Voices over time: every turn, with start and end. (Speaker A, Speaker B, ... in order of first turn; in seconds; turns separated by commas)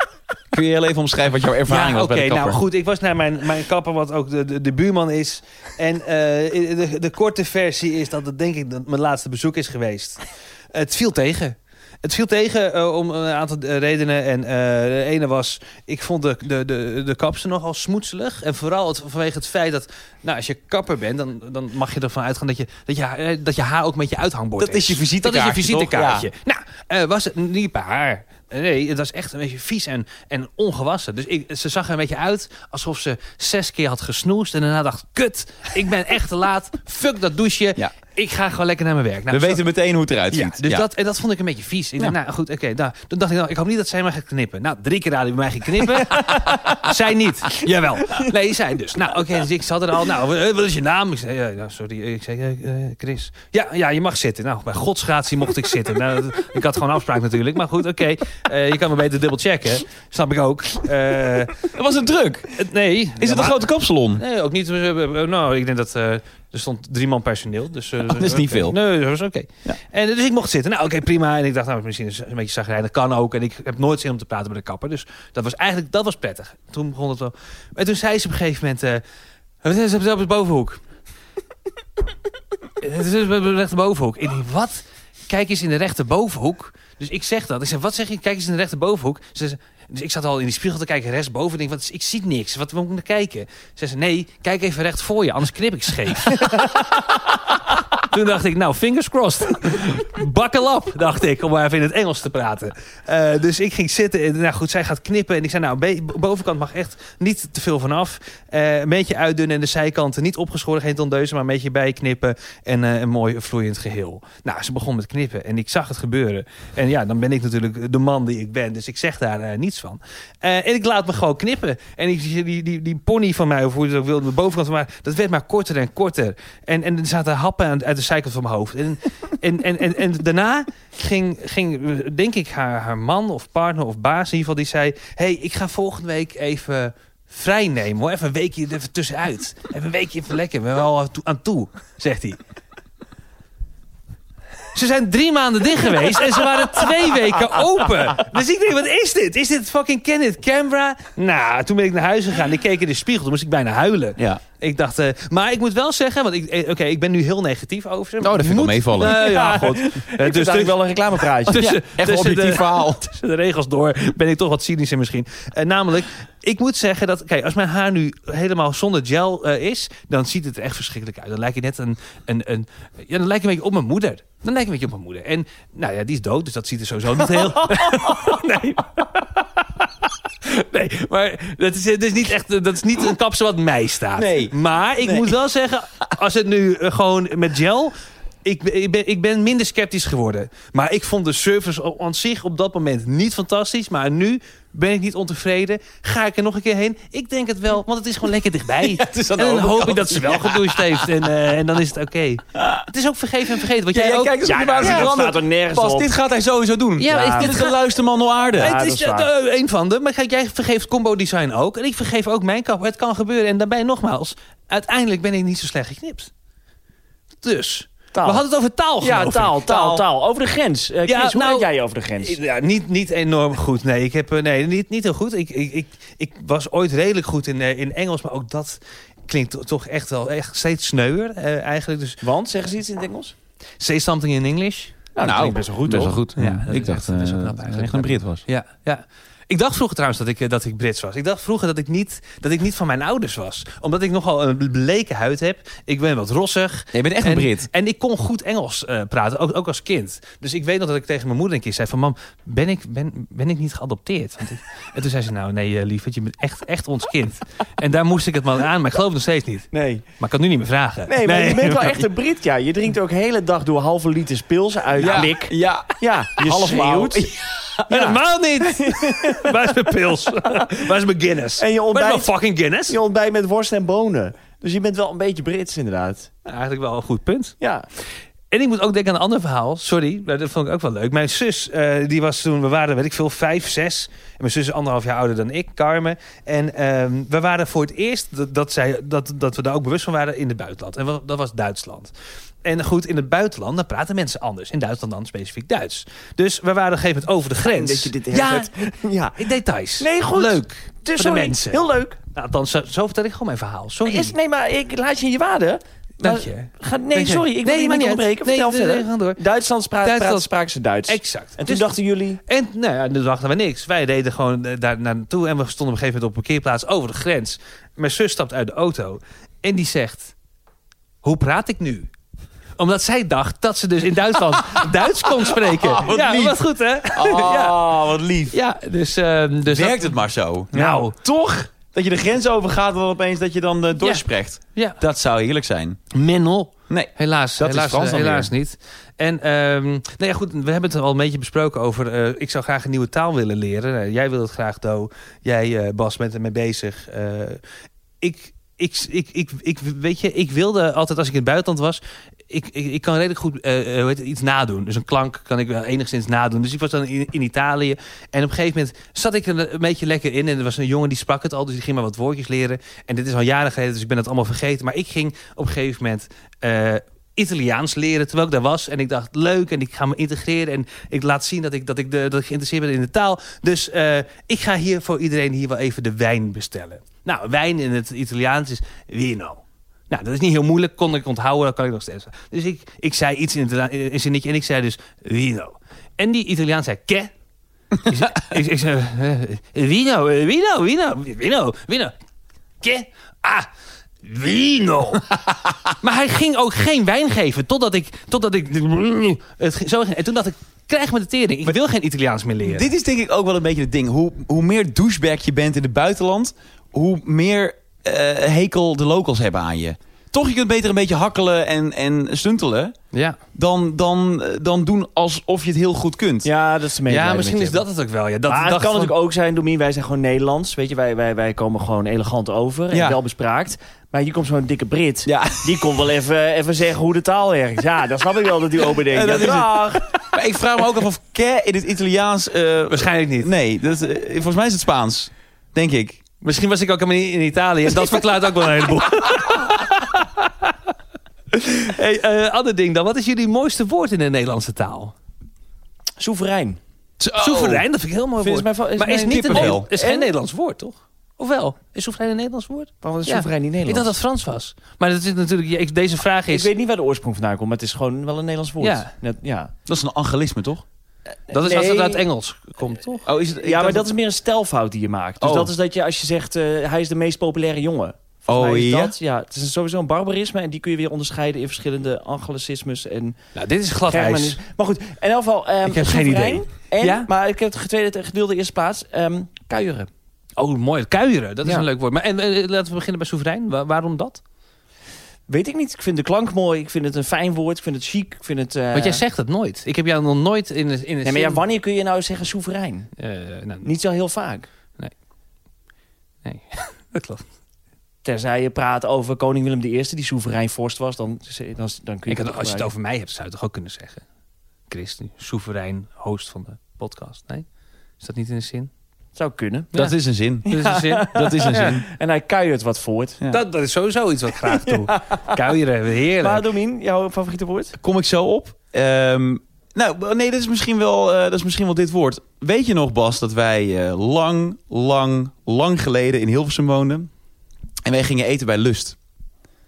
Speaker A: 0.5-2.6, Speaker B: 1.7-10.2, Speaker B: 10.7-39.6, Speaker A: 24.6-26.3, Speaker A: 39.3-40.9, Speaker B: 40.3-61.7, Speaker A: 61.6-62.6, Speaker B: 62.6-63.6, Speaker A: 63.2-64.2, Speaker B: 64.2-79.0, Speaker A: 68.0-68.8, Speaker B: 79.6-80.8, Speaker B: 82.8-97.4, Speaker B: 98.0-142.4, Speaker B: 144.7-179.6, Speaker A: 158.2-159.2, Speaker C: 159.0-161.7, Speaker A: 161.6-163.1, Speaker B: 180.4-187.9, Speaker A: 184.2-185.3, Speaker B: 188.4-205.3, Speaker A: 198.8-201.3, Speaker A: 202.6-202.8, Speaker A: 203.9-208.8, Speaker C: 204.4-206.1, Speaker B: 207.0-207.8, Speaker C: 207.1-207.6, Speaker B: 208.6-216.3, Speaker C: 208.6-209.3, Speaker B: 217.4-220.0, Speaker C: 218.1-218.4, Speaker C: 219.0-222.4, Speaker B: 221.1-232.2, Speaker C: 232.2-233.3, Speaker B: 233.8-234.9, Speaker C: 235.1-236.2, Speaker A: 235.2-238.4, Speaker B: 236.3-262.0, Speaker A: 246.9-247.7, Speaker C: 259.7-260.0, Speaker C: 261.1-267.3, Speaker A: 265.0-267.3, Speaker C: 267.9-269.5, Speaker B: 267.9-273.0, Speaker C: 271.6-272.3, Speaker C: 272.9-276.3, Speaker B: 276.4-277.5, Speaker C: 277.6-277.9, Speaker B: 278.5-292.1, Speaker B: 292.6-298.7, Speaker C: 297.6-299.5, Speaker B: 299.4-304.3, Speaker C: 300.0-302.1, Speaker C: 304.0-312.4, Speaker B: 306.2-309.4, Speaker B: 310.0-310.5, Speaker B: 311.1-311.9, Speaker B: 312.5-320.3, Speaker B: 321.2-322.1, Speaker B: 322.8-327.9, Speaker A: 325.6-326.6, Speaker A: 327.1-328.6, Speaker B: 328.5-330.2, Speaker A: 329.7-336.0, Speaker B: 330.7-331.1, Speaker C: 330.7-331.0, Speaker B: 334.0-335.0, Speaker B: 336.1-347.6, Speaker A: 336.9-338.5, Speaker B: 348.2-387.3, Speaker B: 388.0-392.1, Speaker B: 392.8-393.7, Speaker B: 394.2-395.3, Speaker B: 396.0-402.9, Speaker A: 402.6-412.9, Speaker B: 413.1-413.4, Speaker A: 413.5-416.5, Speaker C: 416.4-417.8, Speaker B: 417.1-419.1, Speaker C: 418.5-430.1, Speaker A: 422.9-423.2, Speaker A: 425.2-426.1, Speaker A: 429.0-436.2, Speaker B: 432.9-433.5, Speaker B: 436.4-440.7, Speaker B: 441.5-445.1, Speaker C: 446.2-446.8, Speaker A: 447.2-447.8, Speaker B: 447.4-456.7, Speaker C: 448.4-450.3, Speaker A: 449.3-449.9, Speaker C: 453.0-454.1, Speaker C: 456.5-459.7, Speaker B: 458.8-459.1, Speaker A: 459.9-460.8, Speaker C: 461.5-462.2, Speaker B: 461.5-463.2, Speaker A: 463.2-464.1, Speaker C: 463.6-473.4, Speaker A: 465.4-465.7, Speaker A: 468.5-469.1, Speaker B: 473.5-474.6, Speaker C: 474.1-480.1, Speaker B: 475.8-477.3, Speaker B: 480.6-484.4, Speaker C: 485.5-489.2, Speaker B: 488.9-491.6, Speaker C: 491.2-493.1, Speaker B: 493.2-493.9, Speaker C: 493.8-494.7, Speaker B: 496.4-497.4, Speaker C: 498.2-502.9, Speaker B: 502.3-504.2, Speaker B: 504.9-507.6, Speaker B: 508.2-508.9, Speaker C: 509.4-509.9, Speaker A: 509.9-512.0, Speaker B: 510.7-512.0, Speaker C: 510.7-513.4, Speaker B: 513.5-516.6, Speaker C: 514.7-515.5, Speaker C: 516.4-518.0, Speaker A: 518.0-527.3, Speaker A: 528.0-529.2